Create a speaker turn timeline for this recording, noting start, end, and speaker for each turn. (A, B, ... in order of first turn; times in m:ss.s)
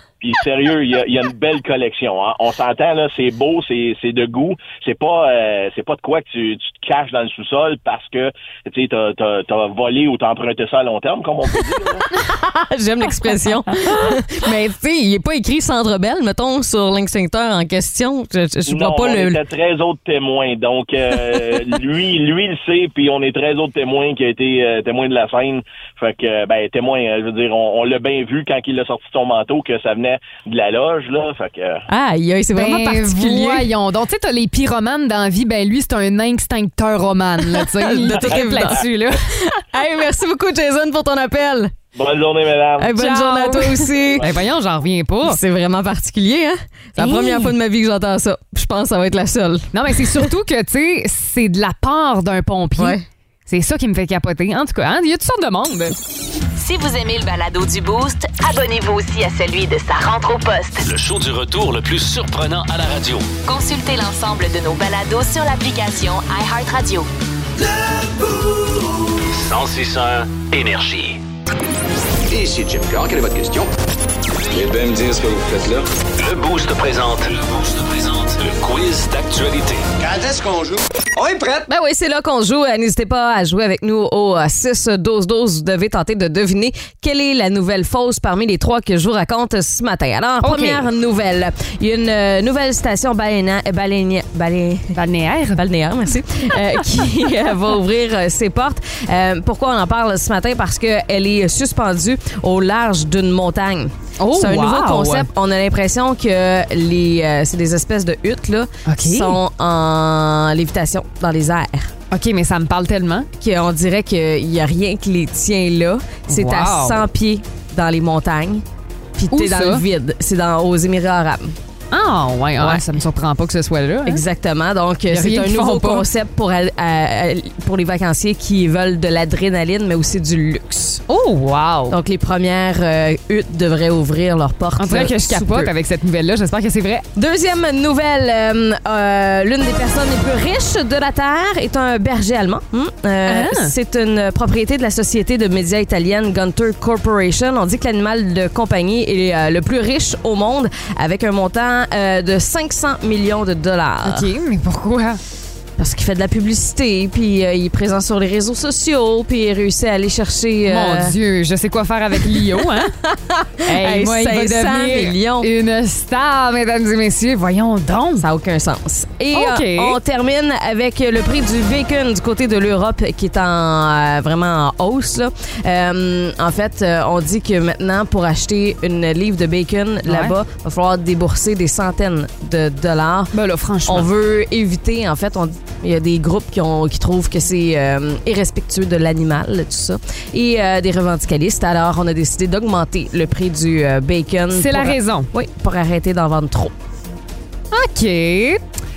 0:00.2-0:12.0 A
0:12.3-0:19.4 B
0:18.6-0:31.8 A
0:31.9-0:33.7 B
0:32.5-0:39.3 C
0:37.6-0:41.7 B
0:38.1-0:38.8 A
0:41.9-0:43.0 A
0:42.8-0:44.2 B
0:42.9-0:45.4 C
0:43.9-0:44.4 A
0:45.2-0:50.3 B
0:47.0-0:47.5 C
0:49.7-0:55.9 C
0:52.8-0:53.0 B
0:56.6-1:00.8 D
1:00.8-1:03.3 E
1:03.4-1:07.1 D
1:09.3-1:11.2 E
1:12.4-1:13.5 F
1:14.6-1:15.8 F
1:16.2-1:19.9 E
1:20.1-1:20.6 F
1:21.6-1:34.9 B
1:30.4-1:30.8 C
1:34.9-1:35.6 C
1:35.6-1:51.9 B
1:44.2-1:45.3 C
1:48.8-1:49.4 C
1:52.1-1:53.3 C
1:53.4-1:58.6 B
1:56.3-1:57.0 C
1:59.2-2:01.5 B
1:59.3-1:59.8 C
2:01.9-2:04.2 C
2:02.6-2:02.8 B
2:04.0-2:11.0 B
2:05.1-2:06.1 C
2:11.1-2:12.0 C
2:11.9-2:15.7 B
2:14.8-2:17.1 C
2:17.2-2:34.3 B
2:23.2-2:23.7 C
2:34.0-2:35.2 C
2:35.8-2:41.1 B
2:40.7-2:43.0 C
2:43.0-2:45.5 B
2:43.6-2:48.3 C
2:48.2-3:03.3 B
2:49.3-2:50.0 C
3:00.0-3:00.3 C
3:03.3-3:04.1 C
3:03.8-3:16.7 B
3:14.5-3:15.3 C
3:17.7-3:18.6 C